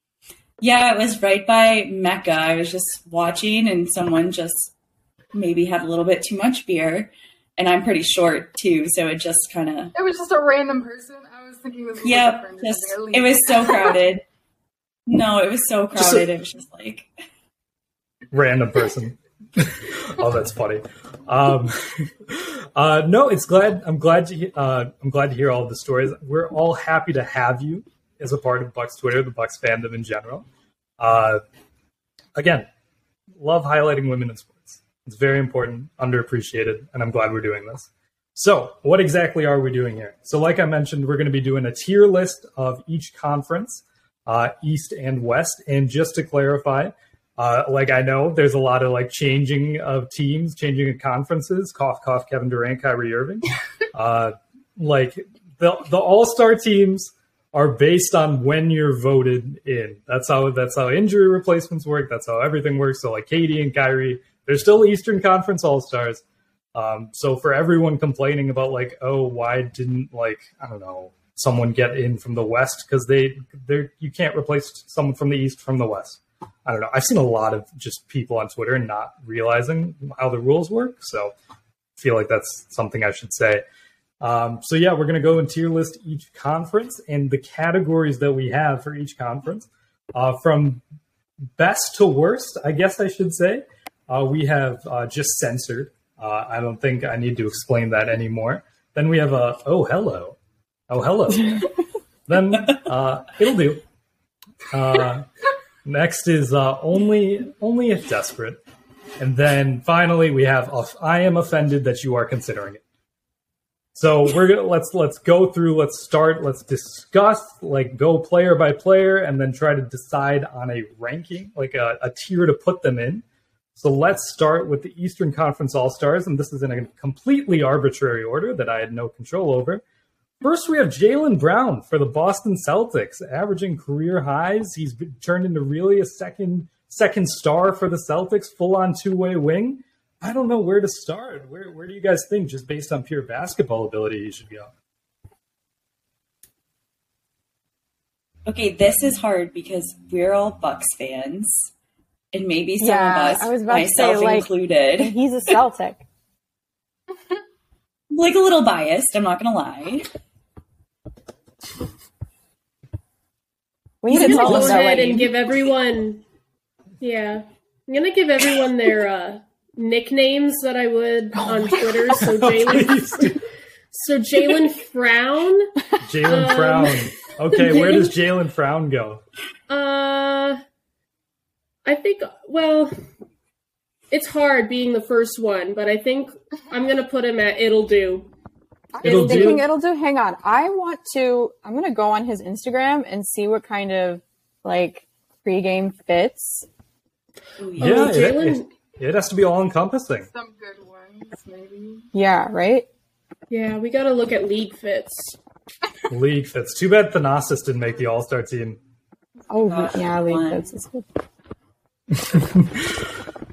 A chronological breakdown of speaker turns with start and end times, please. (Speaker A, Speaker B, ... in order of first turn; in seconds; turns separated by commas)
Speaker A: 0.6-4.7, Speaker A: 5.3-9.9, Speaker B: 9.9-14.0, Speaker A: 12.0-14.2, Speaker A: 15.1-17.1, Speaker C: 15.9-16.2, Speaker C: 18.3-30.4, Speaker C: 31.0-31.4, Speaker C: 32.4-32.7, Speaker C: 33.4-66.2, Speaker C: 66.7-81.3, Speaker C: 82.0-83.6, Speaker C: 84.2-90.8, Speaker C: 91.6-100.4, Speaker C: 100.9-101.7, Speaker C: 102.3-103.8, Speaker C: 104.7-105.2, Speaker C: 105.8-108.6, Speaker C: 109.2-112.8, Speaker C: 113.9-123.2, Speaker C: 123.8-129.8, Speaker C: 130.4-144.7, Speaker A: 148.4-151.7, Speaker A: 152.3-155.5, Speaker D: 152.8-156.0, Speaker A: 158.1-160.1, Speaker D: 164.0-165.3, Speaker E: 164.1-166.2, Speaker A: 164.1-165.1, Speaker E: 167.0-173.3, Speaker C: 172.1-173.4, Speaker E: 173.9-175.7, Speaker C: 176.0-179.2, Speaker E: 176.2-178.1, Speaker E: 179.7-180.6, Speaker E: 181.8-182.9, Speaker E: 184.1-188.3, Speaker D: 188.9-196.7, Speaker C: 189.0-189.6, Speaker E: 189.0-189.6, Speaker A: 197.6-198.2, Speaker E: 197.8-198.7, Speaker C: 197.8-200.3, Speaker B: 200.3-202.1, Speaker D: 202.1-202.9, Speaker E: 203.5-205.4, Speaker C: 206.1-208.8, Speaker D: 209.5-211.0, Speaker A: 209.7-210.7, Speaker C: 212.1-213.0